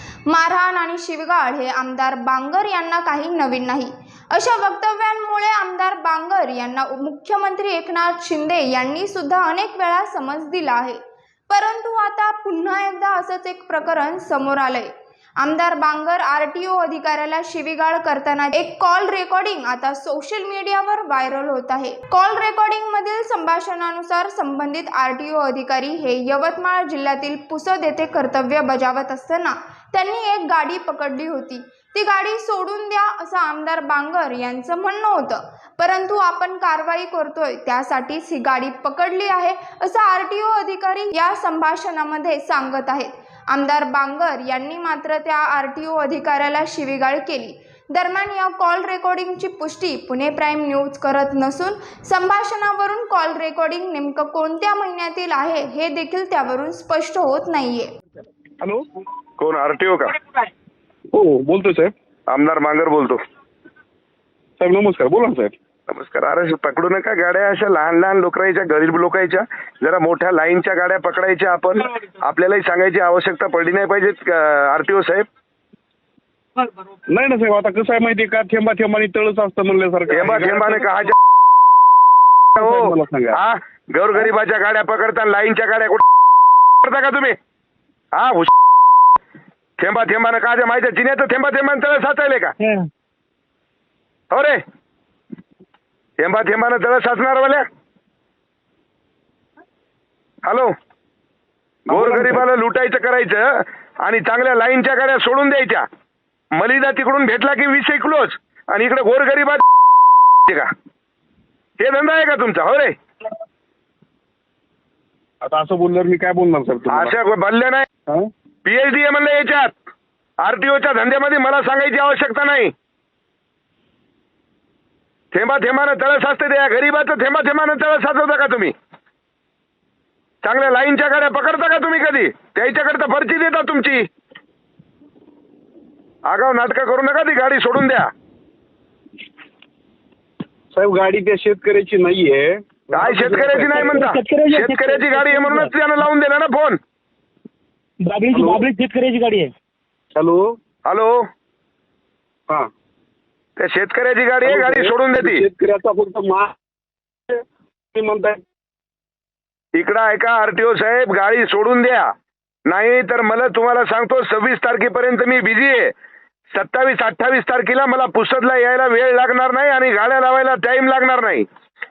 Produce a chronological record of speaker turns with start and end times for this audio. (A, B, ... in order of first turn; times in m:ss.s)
0:00.3-0:57.9 A
0:59.4-1:00.1 B
1:01.1-1:01.9 C
1:02.3-1:03.2 B
1:04.6-1:05.5 C
1:05.9-1:15.2 B
1:17.1-1:20.8 C
1:20.1-1:21.1 B
1:22.6-1:23.4 C
1:22.6-1:26.0 B
1:26.8-1:27.3 B
1:28.1-1:28.5 B
1:29.8-1:32.5 B
1:34.3-1:34.6 B
1:36.2-1:37.6 B
1:40.4-1:40.7 B
1:41.9-1:45.8 B
1:41.9-1:42.4 C
1:46.5-1:49.6 B
1:51.8-1:52.9 B
1:55.4-1:57.1 C
1:56.9-1:57.9 B
1:58.6-1:59.7 B
2:00.4-2:02.7 B
2:05.3-2:08.7 B
2:10.4-2:14.0 B
2:16.3-2:18.1 B
2:20.7-2:24.0 C
2:22.9-2:26.8 B
2:23.7-2:25.7 D
2:28.0-2:29.5 D
2:28.3-2:28.6 C
2:30.1-2:30.5 C
2:30.8-2:31.2 B
2:33.6-2:35.4 B
2:34.4-2:36.5 C
2:37.9-2:38.4 C
2:39.7-2:42.1 B
2:42.7-2:45.9 B
2:46.5-2:51.4 B